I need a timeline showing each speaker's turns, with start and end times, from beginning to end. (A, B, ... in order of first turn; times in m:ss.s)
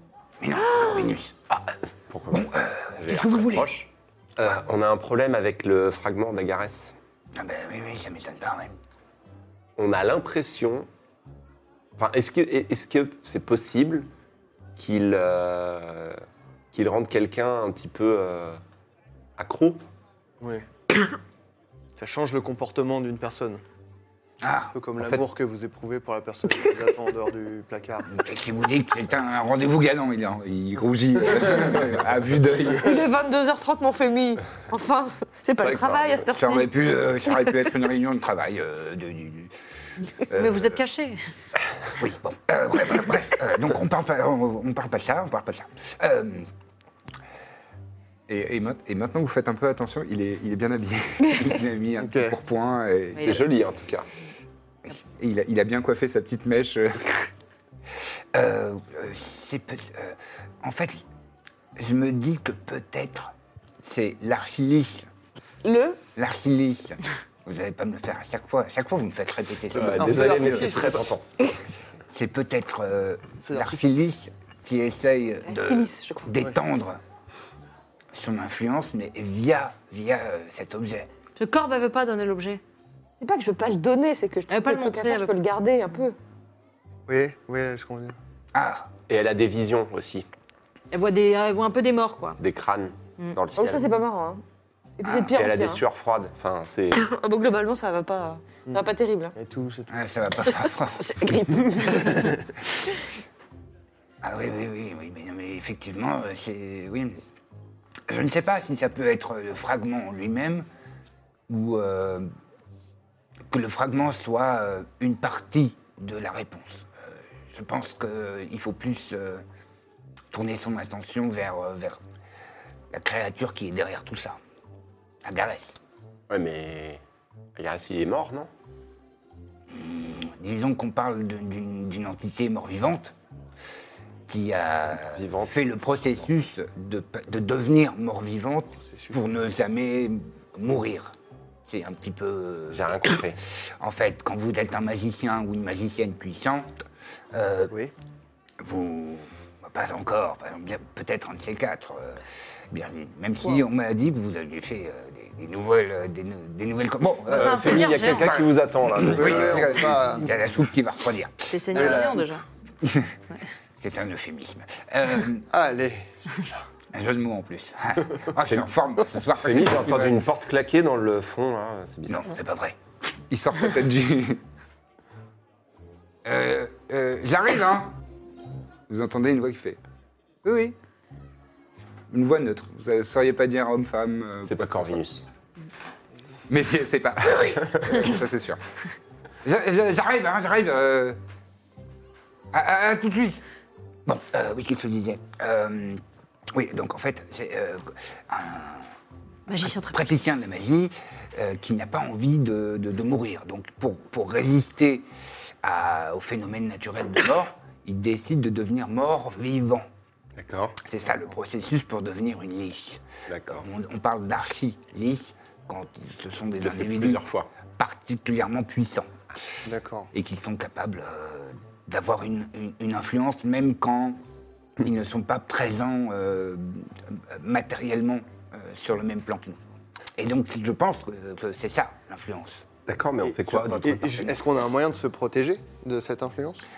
0:00.4-0:01.4 A
0:00.5-0:01.2 B
0:01.5-0:06.9 C
0:02.3-0:03.7 A
0:07.4-0:08.8 A
0:09.8-0:10.9 C
0:12.0-0:14.1 C
0:14.8-0:16.2 C
0:16.7-0:18.6 C
0:19.4-0:19.8 C
0:20.4-0:20.7 D
0:22.0-0:23.6 D
0:24.4-0:24.8 A
0:24.7-0:28.1 D
0:28.1-0:33.0 A
0:32.8-0:36.7 B
0:35.6-0:36.2 C
0:36.4-0:39.5 A
0:40.2-0:40.8 A
0:40.3-0:41.2 E
0:42.0-0:46.5 A
0:48.3-0:53.4 A
0:52.0-0:52.4 D
0:53.1-0:53.4 E
0:53.2-0:54.1 C
0:54.8-0:57.3 A
0:58.3-1:01.0 A
1:01.8-1:03.3 A
1:03.8-1:05.1 A
1:05.6-1:06.0 B
1:06.2-1:10.9 A
1:09.7-1:11.2 C
1:10.0-1:11.0 D
1:12.1-1:17.0 A
1:13.4-1:13.8 D
1:15.4-1:16.3 B
1:18.1-1:21.1 A
1:21.4-1:22.6 E
1:23.2-1:26.2 B
1:24.5-1:25.3 E
1:27.1-1:28.2 D
1:28.5-1:28.9 A
1:29.1-1:30.2 C
1:30.9-1:32.4 E
1:32.4-1:33.9 C
1:33.6-1:34.4 B
1:35.0-1:35.8 B
1:35.2-1:37.0 C
1:36.9-1:39.4 B
1:38.7-1:39.9 D
1:39.9-1:41.2 A
1:41.0-1:42.4 B
1:41.9-1:42.3 D
1:44.2-1:47.2 A
1:48.1-1:50.6 A
1:51.5-1:52.3 A
1:53.5-1:59.4 A
2:00.3-2:02.0 A
2:02.9-2:04.4 A
2:05.2-2:05.8 A
2:06.3-2:07.0 C
2:07.6-2:08.5 C
2:09.7-2:13.1 A
2:14.3-2:21.1 A
2:15.0-2:15.5 C
2:18.8-2:19.2 D
2:21.7-2:23.1 A
2:22.7-2:23.4 C
2:23.8-2:26.7 A
2:27.3-2:27.7 A
2:27.7-2:27.9 D
2:28.6-2:42.2 A
2:37.3-2:39.8 C
2:37.3-2:38.3 E
2:39.0-2:40.3 D
2:41.5-2:42.4 E
2:41.7-2:42.2 D
2:42.8-2:43.1 A
2:43.8-2:45.5 A
2:45.5-2:46.6 D
2:46.9-2:50.2 A
2:48.4-2:48.7 C
2:49.3-2:52.4 C
2:52.1-2:52.8 A
2:53.3-2:54.4 A
2:56.2-2:58.0 A
2:58.9-2:59.8 A
3:00.4-3:00.8 A
3:02.1-3:05.0 A
3:04.4-3:05.2 C
3:06.5-3:08.6 A
3:09.4-3:11.2 A
3:12.5-3:13.4 A
3:14.1-3:18.9 A
3:19.5-3:20.1 E
3:19.6-3:25.1 A
3:25.6-3:29.9 A
3:30.4-3:30.8 C
3:30.8-3:37.2 A
3:33.3-3:33.6 C
3:36.6-3:37.5 C
3:37.8-3:39.1 A
3:39.6-3:40.1 D
3:40.1-3:44.2 A
3:44.8-3:49.6 A
3:50.2-3:52.6 A
3:52.9-3:54.3 C
3:53.2-3:56.6 D